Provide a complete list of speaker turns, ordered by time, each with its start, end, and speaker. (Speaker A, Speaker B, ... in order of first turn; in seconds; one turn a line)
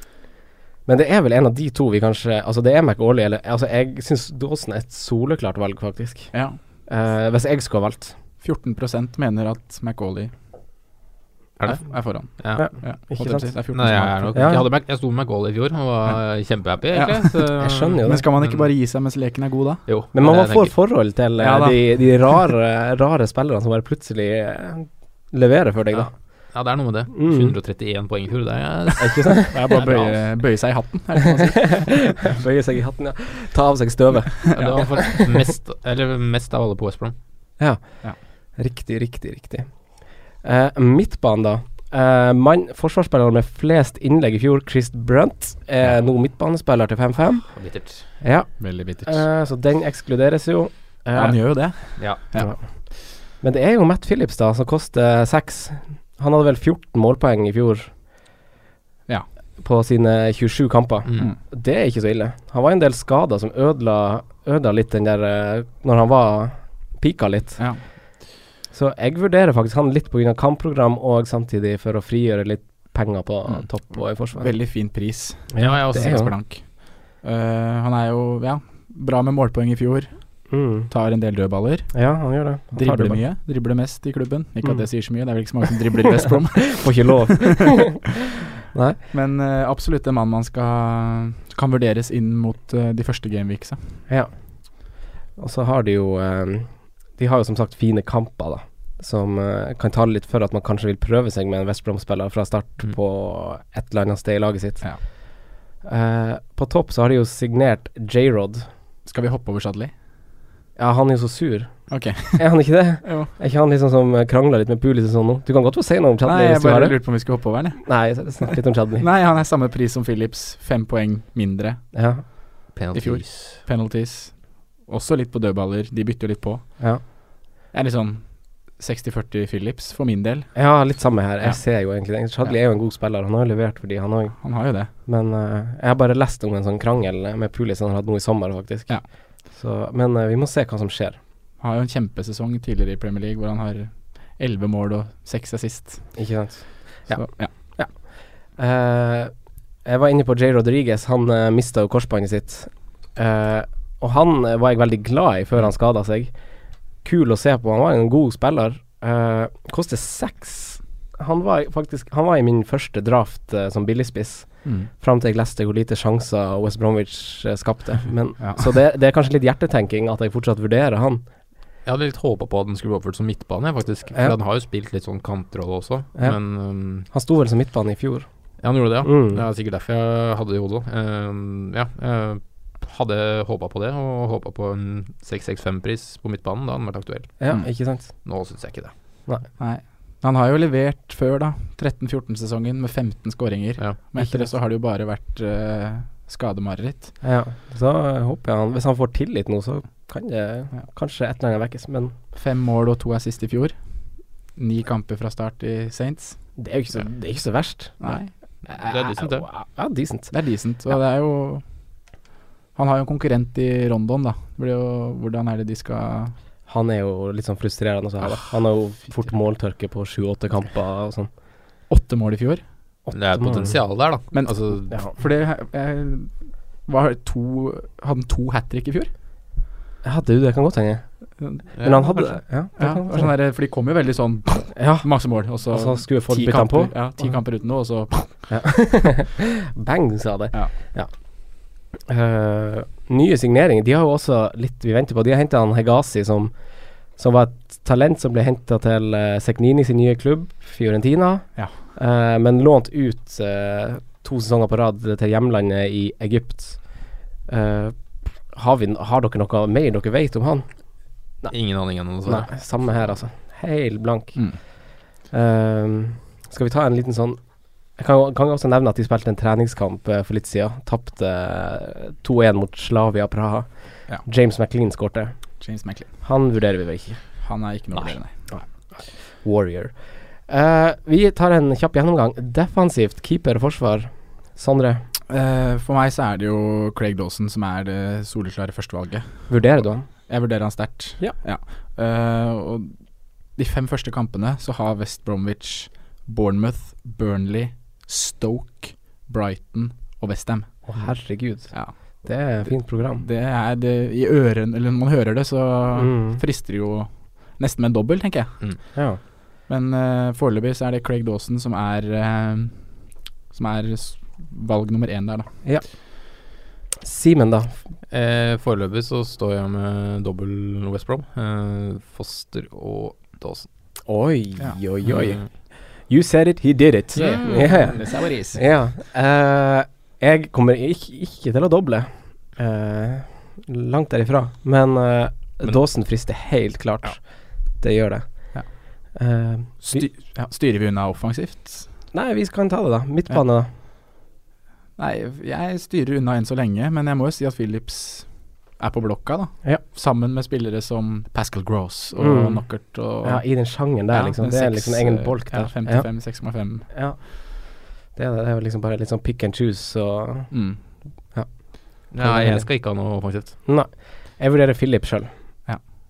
Speaker A: 0.8-8.1
Speaker B: 6.3-6.6
Speaker B: 8.4-10.3
Speaker C: 11.6-13.1
Speaker B: 11.8-14.6
Speaker A: 12.5-14.7
Speaker C: 13.7-18.6
Speaker B: 16.9-19.9
Speaker A: 17.6-18.2
Speaker C: 19.9-20.7
Speaker A: 20.1-26.5
Speaker B: 21.4-22.4
Speaker C: 25.9-30.2
Speaker A: 27.1-27.5
Speaker A: 29.0-29.6
Speaker B: 29.5-32.4
Speaker A: 31.4-35.2
Speaker B: 34.5-35.0
Speaker C: 34.5-37.1
Speaker A: 37.6-57.9
Speaker C: 47.5-48.1
Speaker B: 48.6-49.2
Speaker B: 51.1-52.5
Speaker C: 52.0-52.2
Speaker A: 59.6-68.0
Speaker B: 67.6-67.8
Speaker A: 68.7-74.7
Speaker B: 73.5-82.2
Speaker A: 75.5-76.3
Speaker C: 75.6-76.2
Speaker A: 80.5-80.9
Speaker A: 81.9-83.2
Speaker B: 82.7-87.5
Speaker A: 86.7-88.0
Speaker A: 88.7-89.0
Speaker B: 89.1-93.9
Speaker A: 94.1-105.1
Speaker A: 105.8-108.7
Speaker B: 109.0-109.9
Speaker A: 110.8-119.0
Speaker B: 111.9-113.3
Speaker B: 116.2-122.3
Speaker A: 121.9-122.2
Speaker C: 122.7-123.6
Speaker B: 122.9-126.9
Speaker B: 127.7-130.9
Speaker A: 130.5-141.2
Speaker B: 134.4-134.9
Speaker B: 141.6-146.3
Speaker A: 146.1-149.3
Speaker B: 147.1-147.5
Speaker A: 149.8-156.3
Speaker A: 157.0-171.2
Speaker B: 164.6-164.9
Speaker B: 168.4-168.7
Speaker C: 171.8-177.1
Speaker A: 176.2-178.3
Speaker C: 178.6-187.5
Speaker A: 179.0-179.4
Speaker A: 187.4-188.1
Speaker C: 188.1-188.9
Speaker B: 189.6-197.2
Speaker A: 194.2-194.4
Speaker A: 197.2-202.1
Speaker B: 202.3-203.8
Speaker B: 204.5-206.4
Speaker A: 206.6-208.1
Speaker B: 208.0-208.3
Speaker C: 208.7-209.5
Speaker A: 208.7-210.3
Speaker B: 210.3-211.6
Speaker B: 212.7-216.3
Speaker A: 216.7-221.3
Speaker B: 221.9-222.6
Speaker A: 223.1-223.8
Speaker C: 223.1-225.0
Speaker B: 224.3-229.1
Speaker A: 230.0-231.0
Speaker B: 231.4-238.5
Speaker C: 231.7-232.0
Speaker A: 231.8-233.3
Speaker A: 234.8-237.3
Speaker A: 238.5-260.8
Speaker C: 261.5-263.1
Speaker A: 262.2-264.7
Speaker A: 265.3-275.4
Speaker B: 275.6-276.1
Speaker A: 276.2-277.2
Speaker B: 277.4-278.5
Speaker A: 278.5-285.1
Speaker B: 285.3-292.9
Speaker A: 289.5-290.3
Speaker B: 293.5-301.9
Speaker A: 300.8-303.2
Speaker B: 302.6-309.0
Speaker A: 305.9-306.4
Speaker A: 308.9-309.2
Speaker B: 309.7-315.5
Speaker A: 315.6-316.4
Speaker A: 317.0-317.8
Speaker C: 318.1-323.7
Speaker A: 324.1-328.0
Speaker C: 325.0-325.4
Speaker B: 327.1-328.6
Speaker C: 327.1-328.3
Speaker A: 328.5-340.1
Speaker B: 339.8-341.9
Speaker A: 342.1-343.7
Speaker B: 345.0-356.9
Speaker A: 352.2-360.6
Speaker B: 360.5-360.8
Speaker A: 361.3-362.9
Speaker C: 362.1-363.6
Speaker A: 363.6-365.6